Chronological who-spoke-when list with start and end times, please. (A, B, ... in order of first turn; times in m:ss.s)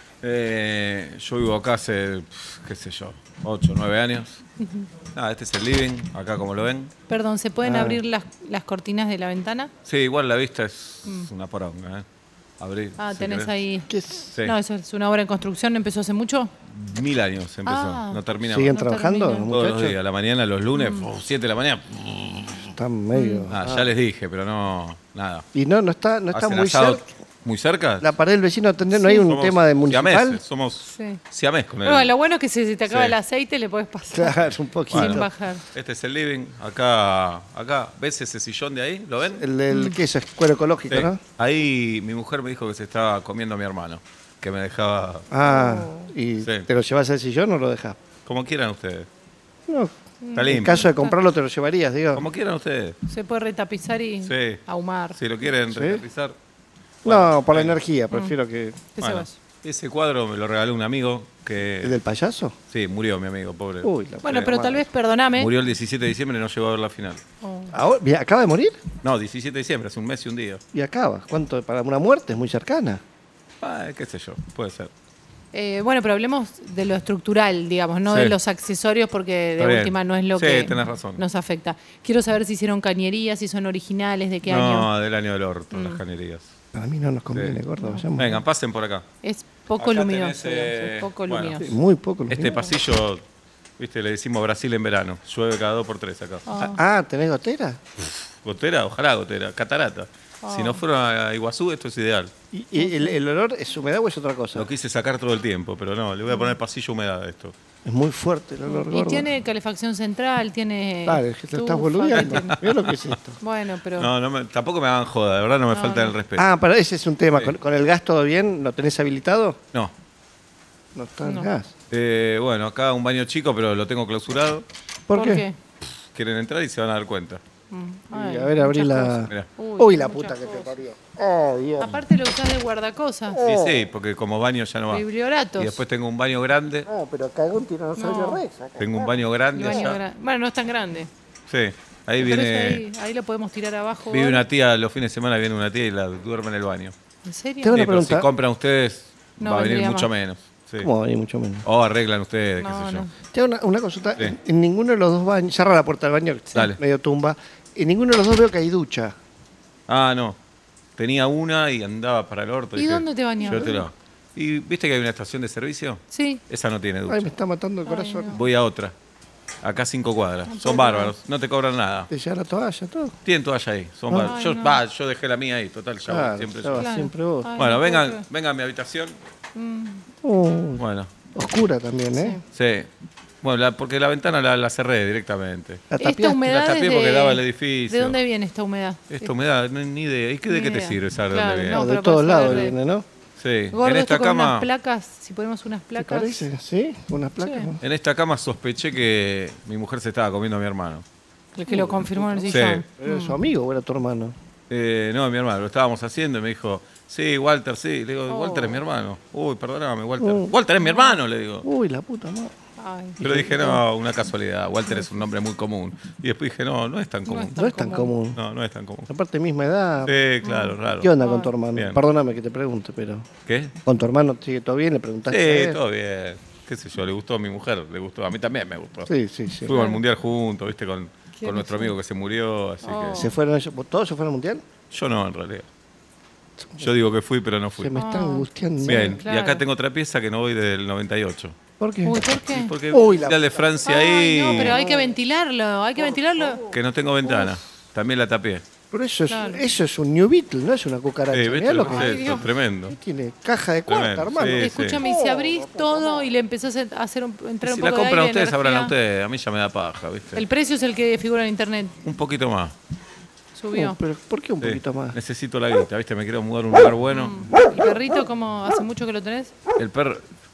0:00.2-0:04.4 A
0:04.6-0:04.9 B
0:05.1-0:06.9 A
0:07.1-0:09.7 B
0:07.6-0:08.0 C
0:09.8-0:12.0 A
0:12.6-0:13.6 A
0:13.0-0:16.5 B
0:13.9-0:14.3 C
0:16.7-0:18.8 A
0:17.6-0:19.5 B
0:18.4-0:20.0 C
0:19.5-0:22.8 A
0:20.7-0:21.1 B
0:22.7-0:23.9 C
0:23.1-0:23.5 B
0:23.5-0:25.4 A
0:25.5-0:27.1 C
0:26.3-0:28.2 A
0:28.0-0:30.4 C
0:28.9-0:29.3 B
0:29.2-0:32.1 A
0:30.9-0:31.2 B
0:31.8-0:34.4 B
0:32.9-0:33.2 A
0:34.1-0:35.3 C
0:34.9-0:39.4 A
0:35.0-0:35.6 B
0:39.2-0:41.2 C
0:39.7-0:40.0 B
0:40.9-0:45.3 A
0:45.3-0:48.0 C
0:45.4-0:46.1 B
0:46.4-0:46.7 A
0:48.2-0:49.1 A
0:49.7-0:49.9 C
0:50.2-0:51.2 B
0:50.3-0:50.9 A
0:50.5-0:52.2 C
0:52.1-0:53.0 A
0:53.0-0:55.2 B
0:54.2-0:56.4 A
0:55.7-0:56.0 C
0:57.0-0:58.9 C
0:57.0-0:57.8 A
0:58.1-0:58.4 B
0:59.0-0:59.3 B
0:59.0-1:02.0 A
1:01.8-1:02.5 C
1:02.7-1:04.6 A
1:03.8-1:04.9 C
1:04.2-1:05.5 B
1:05.4-1:07.2 A
1:07.4-1:07.8 B
1:07.7-1:08.8 C
1:09.0-1:10.6 A
1:10.7-1:13.0 C
1:13.6-1:14.9 A
1:15.5-1:24.9 B
1:18.1-1:18.4 A
1:19.6-1:21.2 A
1:24.4-1:26.5 A
1:25.7-1:26.0 B
1:26.7-1:28.4 C
1:27.3-1:27.6 A
1:27.8-1:28.1 B
1:28.2-1:29.0 A
1:29.2-1:31.8 B
1:29.8-1:31.7 A
1:31.6-1:32.8 C
1:32.3-1:33.2 A
1:33.8-1:36.4 A
1:36.4-1:36.8 B
1:36.6-1:37.8 C
1:38.0-1:42.3 A
1:40.4-1:40.8 B
1:42.5-1:44.7 C
1:42.8-1:43.2 B
1:44.6-1:47.5 A
1:46.3-1:46.6 B
1:47.8-1:49.3 C
1:48.7-1:52.6 B
1:51.0-1:53.4 C
1:52.1-1:53.2 A
1:53.4-1:54.1 B
1:54.0-1:56.5 A
1:55.7-1:56.2 B
1:56.4-1:59.6 C
2:00.9-2:01.7 C
2:01.2-2:01.5 B
2:01.9-2:04.7 A
2:05.1-2:05.5 C
2:05.1-2:05.6 B
2:06.1-2:07.4 A
2:07.7-2:10.8 B
2:08.1-2:12.0 C
2:11.8-2:13.4 B
2:13.4-2:13.8 C
2:13.4-2:16.9 A
2:14.9-2:15.8 B
2:16.9-2:19.1 C
2:18.0-2:18.4 B
2:18.8-2:20.0 A
2:19.5-2:21.1 B
2:21.5-2:22.8 A
2:22.2-2:24.4 B
2:24.1-2:26.9 A
2:27.2-2:27.8 B
2:27.6-2:28.3 C
2:27.7-2:30.9 A
2:29.4-2:30.1 B
2:30.8-2:31.6 C
2:31.6-2:33.1 A
2:32.6-2:33.2 B
2:33.3-2:39.2 C
2:36.5-2:36.8 A
2:39.9-2:40.4 A
2:41.0-2:47.3 A
2:42.8-2:43.9 B
2:43.4-2:43.8 C
2:46.1-2:46.4 B
2:47.1-2:48.4 C
2:47.8-2:48.4 B
2:48.3-2:48.9 A
2:49.6-2:52.1 A
2:50.5-2:51.1 B
2:52.1-2:53.2 C
2:53.2-2:56.9 A
2:54.1-2:54.3 C
2:54.2-2:54.8 B
2:56.0-2:57.6 C
2:56.7-2:58.2 B
2:57.6-2:59.2 A
2:59.6-3:00.1 B
3:00.2-3:00.8 C
3:00.8-3:01.1 A
3:01.3-3:02.4 C
3:02.1-3:02.4 B
3:02.5-3:02.9 A
3:03.4-3:05.9 A
3:05.9-3:06.5 C
3:06.0-3:09.3 B
3:06.4-3:08.2 A
3:09.1-3:11.9 A
3:10.5-3:12.8 B
3:11.7-3:13.0 C
3:12.4-3:12.7 A
3:13.4-3:14.7 A
3:13.7-3:16.5 B
3:15.9-3:17.8 C
3:17.4-3:17.7 B
3:17.8-3:21.0 A
3:21.6-3:23.4 B
3:21.7-3:24.3 C
3:22.5-3:22.8 A
3:24.7-3:31.7 A
3:28.3-3:28.8 B
3:30.2-3:30.5 C
3:30.8-3:31.2 B
3:31.6-3:32.5 C
3:32.8-3:33.3 B
3:33.2-3:33.8 C
3:33.2-3:37.7 A
3:37.2-3:38.2 B
3:37.6-3:38.4 C
3:38.2-3:39.1 A
3:39.1-3:40.1 C
3:40.0-3:41.2 A
3:40.4-3:41.6 B
3:41.0-3:43.3 C
3:41.7-3:42.0 A
3:43.5-3:43.7 A
3:43.9-3:45.8 C
3:45.3-3:49.1 A
3:49.1-3:49.8 C
3:49.7-3:53.3 A
3:49.7-3:50.0 B
3:51.4-3:52.0 B
3:52.8-3:53.4 B
3:53.1-3:54.6 C
3:54.9-3:55.7 A
3:56.6-3:56.9 C
3:56.8-3:58.0 A
3:57.8-3:59.2 C
3:58.0-3:59.7 B
3:58.8-4:01.6 A
4:01.8-4:02.3 C
4:02.0-4:02.8 B
4:02.1-4:04.8 A
4:02.9-4:03.7 C
4:03.8-4:06.7 B
4:04.5-4:05.1 C
4:06.0-4:06.5 C
4:06.6-4:08.7 A
4:07.2-4:07.6 C
4:08.9-4:16.2 C
4:09.3-4:09.7 B
4:11.3-4:13.0 A
4:11.9-4:12.5 B
4:13.9-4:15.1 A
4:14.6-4:18.9 B
4:17.6-4:20.4 A
4:20.4-4:22.0 B
4:22.0-4:22.8 A
4:23.6-4:24.0 B
4:23.7-4:25.2 C
4:24.6-4:27.5 A
4:27.1-4:29.6 B
4:29.8-4:30.2 A